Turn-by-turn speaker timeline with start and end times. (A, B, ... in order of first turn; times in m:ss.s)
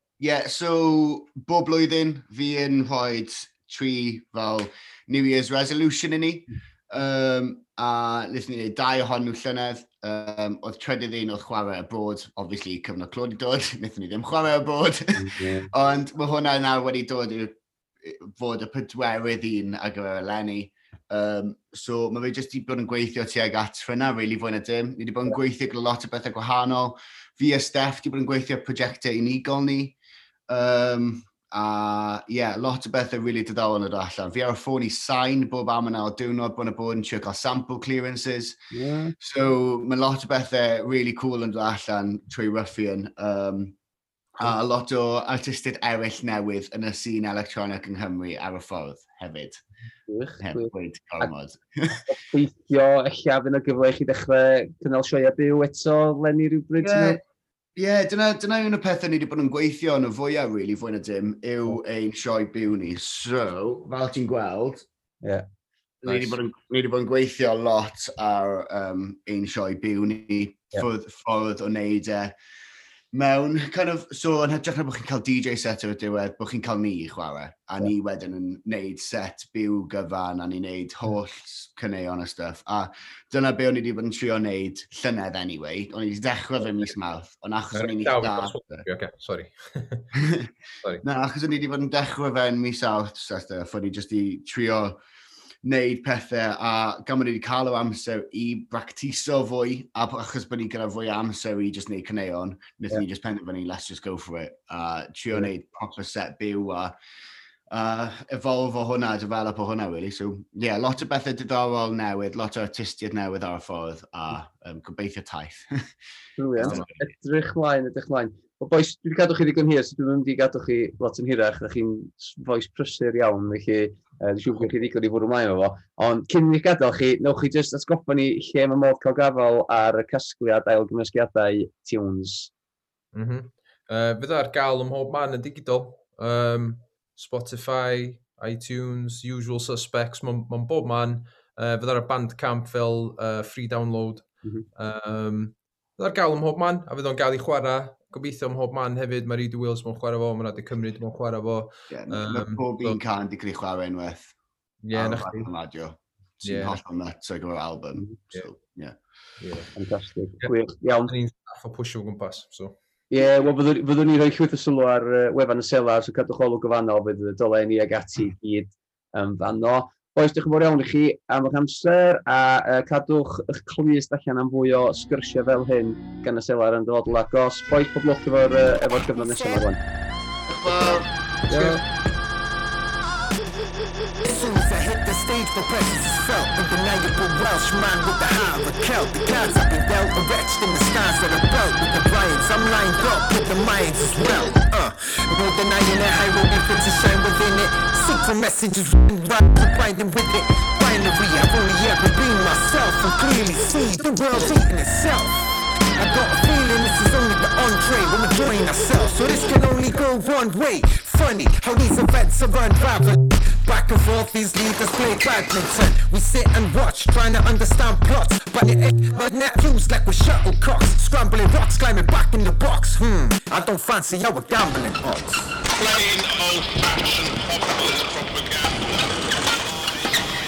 0:00.2-0:30.0 A
0:15.2-0:15.7 B
0:30.5-0:38.6 A
0:38.7-0:39.2 B
0:39.2-0:43.8 A
0:44.4-0:49.6 A
0:50.1-0:51.3 B
0:50.4-0:52.0 A
0:52.0-0:57.2 B
0:56.8-0:57.2 A
0:57.8-1:04.9 A
1:06.0-1:12.3 A
1:06.1-1:06.3 B
1:13.1-1:28.8 A
1:27.7-1:30.1 C
1:30.1-1:30.5 A
1:31.0-1:35.0 A
1:35.6-1:46.9 A
1:47.7-1:55.7 A
1:56.4-2:12.5 B
1:56.6-1:56.9 C
1:56.6-1:56.9 A
2:13.1-2:33.0 C
2:31.9-2:34.4 A
2:34.8-2:35.5 C
2:34.9-2:39.0 A
2:36.4-2:36.8 C
2:39.4-2:39.7 C
2:39.8-2:41.1 B
2:41.1-2:42.8 C
2:43.1-2:59.8 B
2:59.1-2:59.6 D
3:00.5-3:01.1 A
3:01.5-3:01.8 B
3:01.5-3:01.8 C
3:04.2-3:45.5 D
3:45.7-3:50.3 E